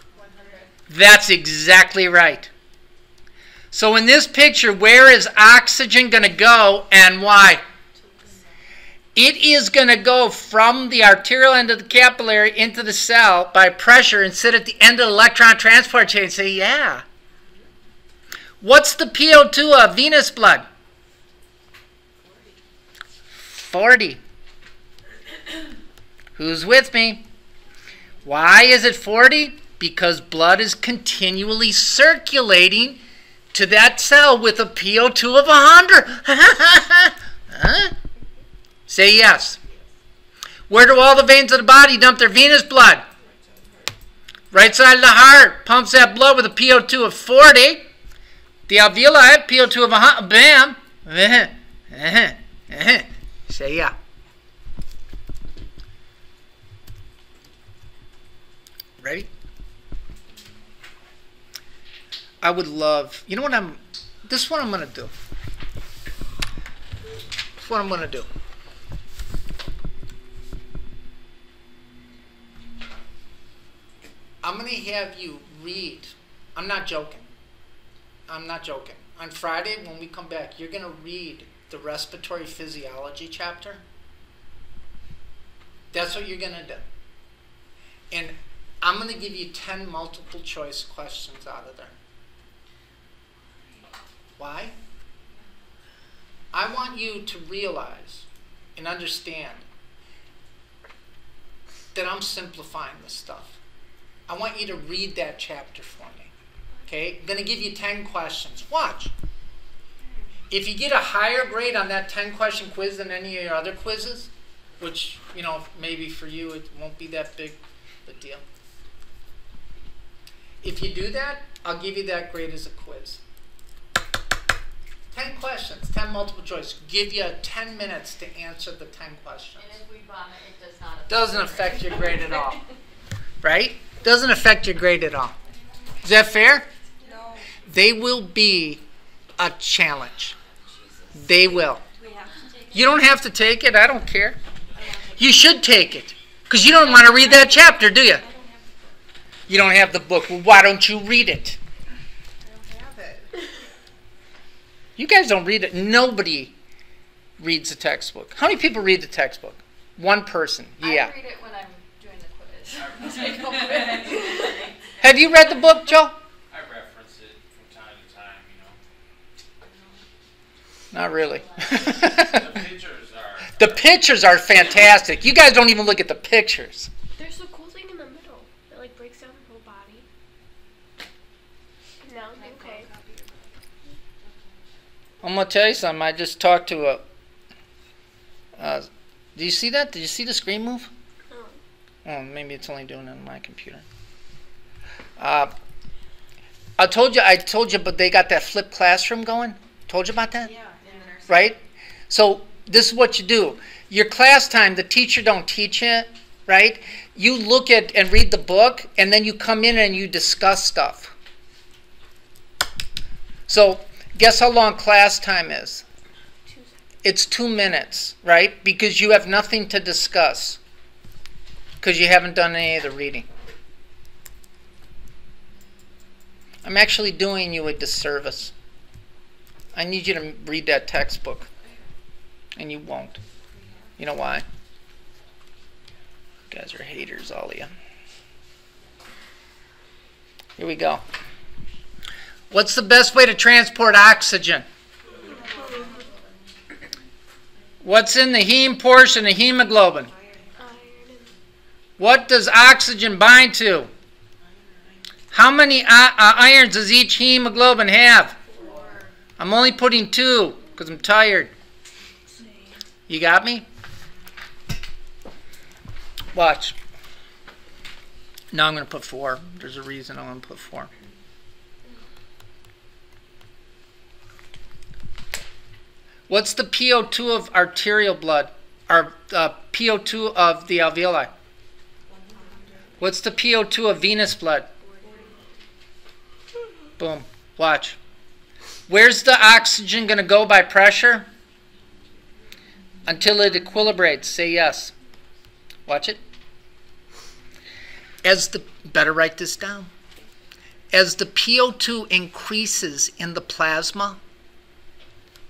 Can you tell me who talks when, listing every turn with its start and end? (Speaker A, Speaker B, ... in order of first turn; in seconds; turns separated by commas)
Speaker A: 0.1-0.7, Speaker B: 0.9-2.5, Speaker B: 3.7-7.6, Speaker C: 7.9-8.6, Speaker B: 9.2-17.0, Speaker B: 18.6-20.6, Speaker C: 22.2-22.6, Speaker B: 23.4-24.2, Speaker B: 26.4-27.2, Speaker B: 28.2-33.0, Speaker B: 33.5-37.9, Speaker B: 38.9-39.6, Speaker B: 40.7-43.0, Speaker C: 43.2-44.0, Speaker B: 44.5-47.9, Speaker B: 48.7-53.9, Speaker B: 59.0-59.3, Speaker B: 62.4-65.1, Speaker B: 67.6-68.3, Speaker B: 74.4-77.3, Speaker B: 78.3-83.8, Speaker B: 85.9-86.8, Speaker B: 88.1-91.9, Speaker C: 93.3-93.9, Speaker B: 94.4-94.7, Speaker B: 96.5-99.6, Speaker B: 101.9-103.6, Speaker B: 104.3-106.3, Speaker B: 106.9-109.1, Speaker C: 110.0-110.4, Speaker B: 110.5-118.4, Speaker B: 120.6-123.2, Speaker B: 125.1-129.8, Speaker A: 129.6-132.4, Speaker B: 131.1-132.6, Speaker B: 133.4-135.3, Speaker A: 135.5-135.9, Speaker B: 136.0-136.7, Speaker C: 137.0-137.6, Speaker B: 137.6-138.8, Speaker B: 139.4-140.3, Speaker A: 140.5-143.0, Speaker B: 141.1-141.8, Speaker C: 141.9-142.7, Speaker B: 142.7-144.4, Speaker C: 144.7-145.6, Speaker B: 145.2-148.2, Speaker C: 147.1-149.0, Speaker B: 149.5-151.6, Speaker C: 152.4-153.3, Speaker B: 155.0-156.5, Speaker B: 157.4-161.1, Speaker A: 160.8-163.3, Speaker D: 162.7-163.9, Speaker C: 163.0-164.6, Speaker B: 165.0-166.2, Speaker D: 166.5-168.8, Speaker C: 169.6-170.0, Speaker B: 170.9-172.5, Speaker A: 171.2-172.2, Speaker D: 172.1-173.9, Speaker B: 173.6-176.9, Speaker E: 177.2-180.1, Speaker E: 182.0-182.9, Speaker C: 182.3-183.6, Speaker A: 184.2-184.6, Speaker B: 185.2-187.0, Speaker B: 188.6-190.9, Speaker E: 191.3-191.6, Speaker B: 192.0-193.8, Speaker B: 195.2-195.5, Speaker B: 196.8-200.5, Speaker C: 200.4-201.5, Speaker B: 201.3-211.1, Speaker B: 213.5-215.8, Speaker E: 216.4-216.7, Speaker B: 217.0-220.6, Speaker B: 221.8-223.2, Speaker B: 226.6-228.5, Speaker B: 229.7-231.5, Speaker B: 232.6-233.2, Speaker C: 233.4-234.0, Speaker B: 234.0-234.4, Speaker B: 236.5-237.7, Speaker B: 240.6-241.0, Speaker B: 242.5-244.7, Speaker C: 245.1-246.4, Speaker E: 245.2-246.0, Speaker A: 245.3-246.0, Speaker B: 247.8-250.1, Speaker C: 250.0-250.7, Speaker E: 250.6-251.3, Speaker B: 252.0-253.9, Speaker C: 254.4-255.1, Speaker B: 255.3-258.3, Speaker C: 258.5-259.1, Speaker B: 259.4-261.5, Speaker E: 262.3-262.8, Speaker B: 263.1-263.6, Speaker B: 266.3-266.7, Speaker B: 268.5-270.9, Speaker B: 276.3-281.3, Speaker C: 282.1-283.1, Speaker B: 283.0-284.7, Speaker C: 284.8-285.6, Speaker B: 287.0-288.0, Speaker B: 288.9-291.3, Speaker B: 293.1-294.9, Speaker B: 295.9-296.2, Speaker B: 298.2-299.9, Speaker B: 300.9-304.2